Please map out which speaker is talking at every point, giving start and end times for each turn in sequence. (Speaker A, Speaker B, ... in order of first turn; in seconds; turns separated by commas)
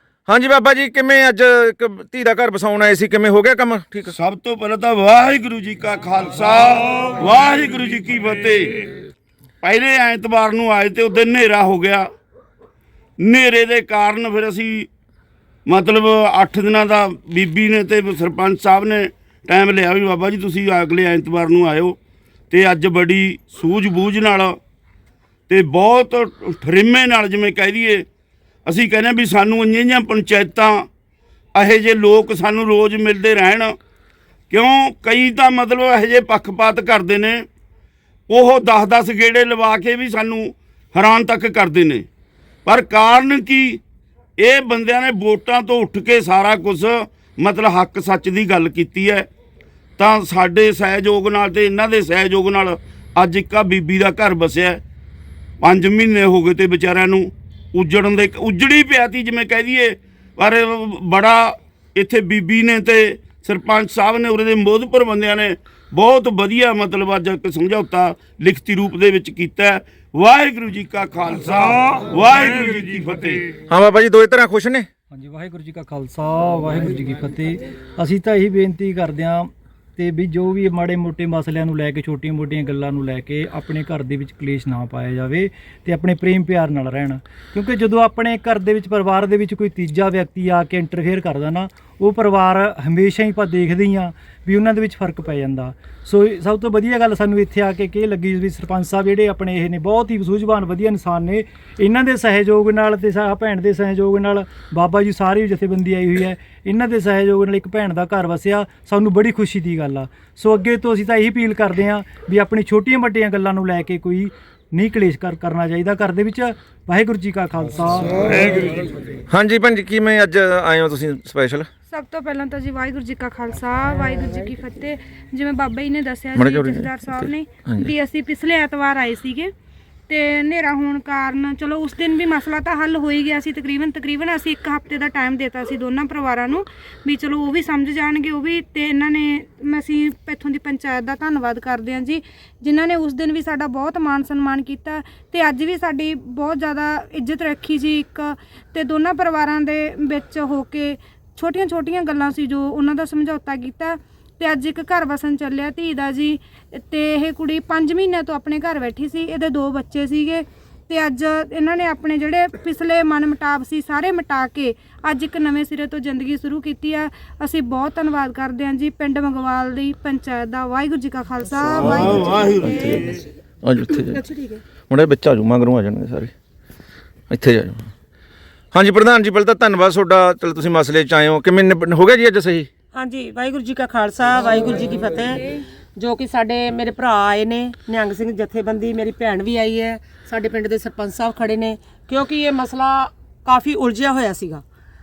Speaker A: 0.3-4.1, Speaker B: 4.1-8.9, Speaker B: 9.6-12.1, Speaker B: 13.2-14.9, Speaker B: 15.7-22.0, Speaker B: 22.5-24.6, Speaker B: 25.5-28.1, Speaker B: 28.7-30.9, Speaker B: 31.6-33.8, Speaker B: 34.5-37.5, Speaker B: 38.3-42.1, Speaker B: 42.7-43.8, Speaker B: 44.4-49.3, Speaker B: 50.0-54.8, Speaker B: 55.6-73.5, Speaker A: 73.7-74.9, Speaker C: 75.1-118.8, Speaker A: 119.3-121.7, Speaker D: 121.9-129.5, Speaker A: 126.4-126.9, Speaker D: 130.1-172.5, Speaker B: 171.8-173.2, Speaker A: 172.6-173.1, Speaker A: 173.6-174.2, Speaker A: 174.9-176.3, Speaker A: 177.3-177.9, Speaker A: 178.7-182.7, Speaker E: 182.9-194.6